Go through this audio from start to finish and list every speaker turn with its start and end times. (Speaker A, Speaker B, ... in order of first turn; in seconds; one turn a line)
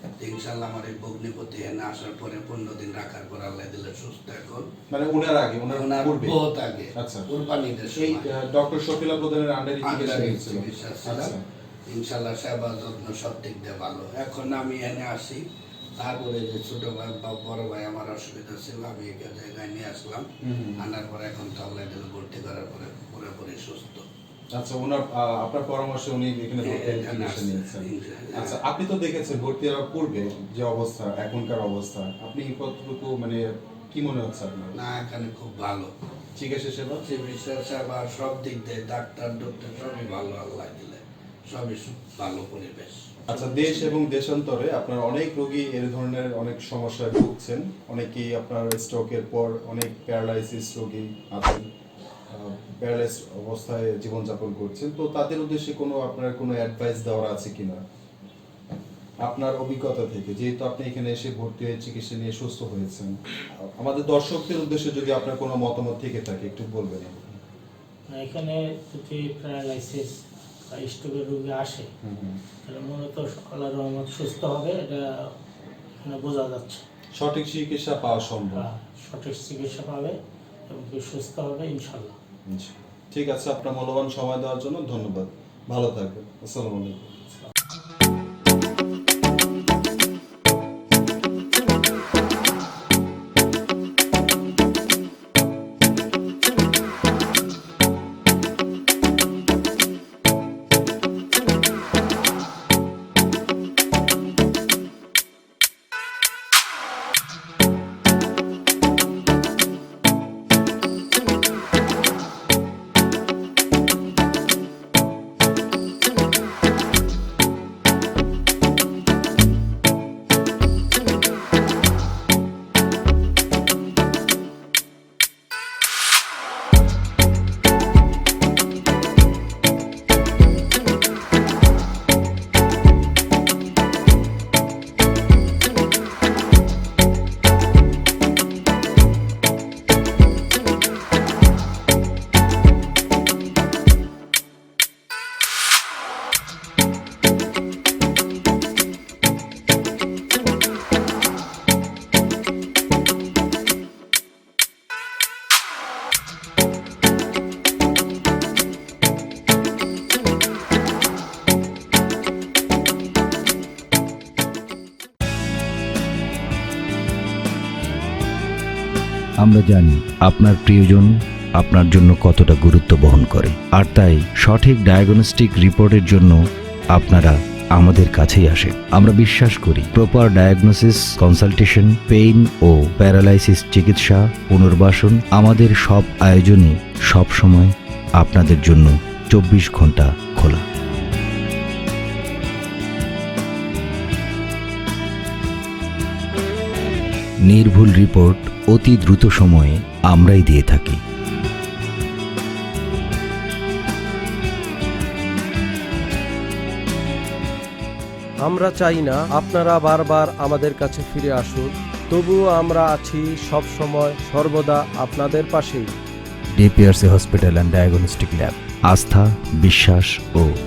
Speaker A: 0.2-4.7
Speaker B: 4.9-6.4
Speaker A: 5.7-8.3
Speaker B: 6.9-7.3
Speaker B: 8.0-11.4
Speaker A: 9.8-11.3
Speaker A: 11.9-15.4
Speaker A: 16.0-20.3
Speaker B: 20.4-20.8
Speaker A: 20.8-24.0
Speaker B: 24.5-34.7
Speaker A: 26.6-28.6
Speaker A: 34.8-35.9
Speaker B: 36.4-37.0
Speaker A: 37.0-43.1
Speaker B: 43.3-51.6
Speaker C: 43.3-44.0
Speaker B: 52.3-57.8
Speaker B: 59.2-63.1
Speaker B: 63.8-67.4
Speaker C: 68.1-71.9
Speaker B: 72.0-72.4
Speaker C: 72.6-75.3
Speaker C: 76.0-76.8
Speaker B: 77.2-78.7
Speaker C: 78.5-80.2
Speaker C: 80.7-82.2
Speaker B: 82.5-87.1
Speaker D: 169.4-176.4
Speaker D: 176.9-190.6
Speaker D: 197.5-201.0
Speaker E: 208.4-215.9
Speaker D: 216.6-220.5